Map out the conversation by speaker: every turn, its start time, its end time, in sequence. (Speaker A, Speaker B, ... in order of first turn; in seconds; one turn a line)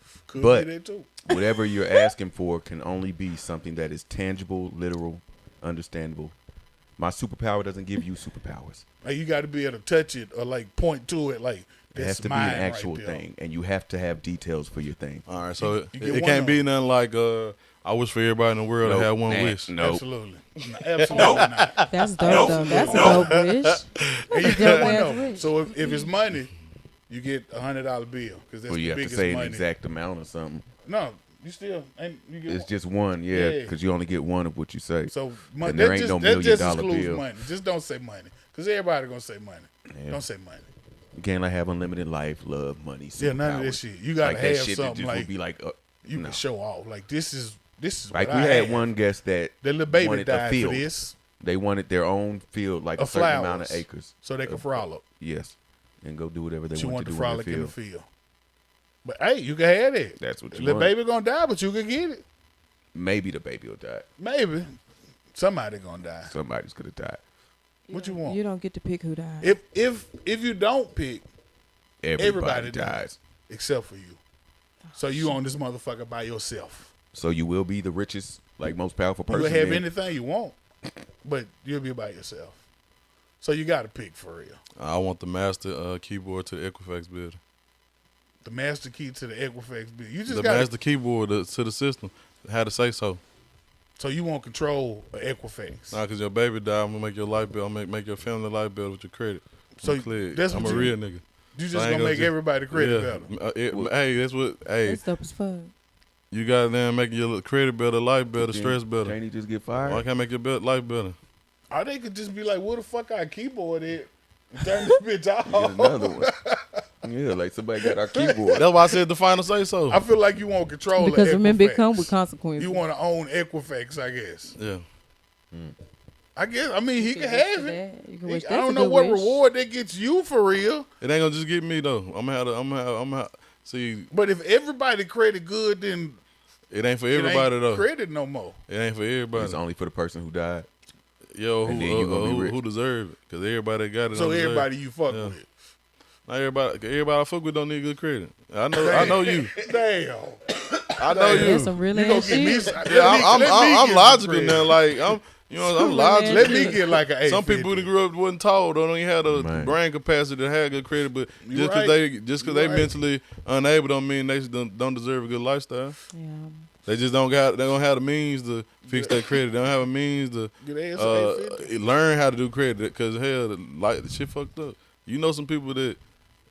Speaker A: 0.3-1.1
Speaker B: 0.4-0.7
Speaker B: 1.2-6.3
Speaker B: 7.0-8.8
Speaker A: 9.0-13.2
Speaker B: 11.9-15.3
Speaker C: 15.3-19.7
Speaker A: 15.6-16.7
Speaker B: 18.8-20.0
Speaker A: 19.8-26.5
Speaker C: 21.1-23.4
Speaker D: 21.9-26.1
Speaker C: 24.0-24.9
Speaker A: 27.1-29.7
Speaker B: 28.7-30.7
Speaker A: 30.9-32.7
Speaker B: 32.5-37.2
Speaker A: 33.3-33.7
Speaker A: 35.1-40.7
Speaker B: 39.9-40.2
Speaker B: 41.2-46.4
Speaker A: 43.2-45.3
Speaker A: 46.0-48.9
Speaker B: 48.1-50.9
Speaker A: 49.6-51.2
Speaker B: 51.4-57.7
Speaker A: 53.0-55.0
Speaker A: 56.7-58.0
Speaker A: 59.0-62.2
Speaker B: 60.2-60.9
Speaker B: 62.9-64.0
Speaker A: 64.2-64.8
Speaker A: 65.3-66.3
Speaker B: 66.3-67.2
Speaker D: 67.9-69.6
Speaker A: 67.9-68.4
Speaker A: 69.4-71.3
Speaker B: 72.0-73.2
Speaker A: 72.2-74.2
Speaker D: 74.9-75.4
Speaker A: 75.0-76.9
Speaker B: 77.1-79.9
Speaker A: 79.3-80.6
Speaker A: 81.2-82.6
Speaker A: 83.4-84.6
Speaker C: 84.8-87.4
Speaker A: 88.4-90.7
Speaker C: 90.3-93.2
Speaker A: 94.0-96.0
Speaker C: 95.9-105.0
Speaker A: 99.8-101.0
Speaker A: 101.5-103.3
Speaker D: 104.8-105.7
Speaker C: 106.3-109.2
Speaker B: 108.3-110.0
Speaker C: 109.8-111.2
Speaker A: 111.7-116.8
Speaker B: 115.5-116.3
Speaker B: 117.0-118.7
Speaker A: 117.9-118.8
Speaker C: 118.6-120.0
Speaker A: 119.9-124.5
Speaker D: 120.9-122.8
Speaker C: 124.5-124.8
Speaker A: 126.4-130.9
Speaker D: 127.0-129.4
Speaker C: 131.0-134.1
Speaker A: 134.1-136.2
Speaker C: 136.7-137.8
Speaker A: 137.1-138.6
Speaker C: 138.7-139.6
Speaker B: 139.3-140.7
Speaker C: 141.3-145.3
Speaker B: 141.6-142.6
Speaker A: 144.1-145.5
Speaker C: 146.3-149.6
Speaker A: 148.7-154.8
Speaker C: 151.0-151.8
Speaker D: 151.2-152.8
Speaker C: 152.8-166.0
Speaker A: 155.6-157.9
Speaker D: 155.8-156.8
Speaker B: 159.3-159.8
Speaker A: 161.4-162.9
Speaker D: 166.1-166.7
Speaker C: 166.8-176.0
Speaker A: 168.9-169.3
Speaker A: 170.6-171.7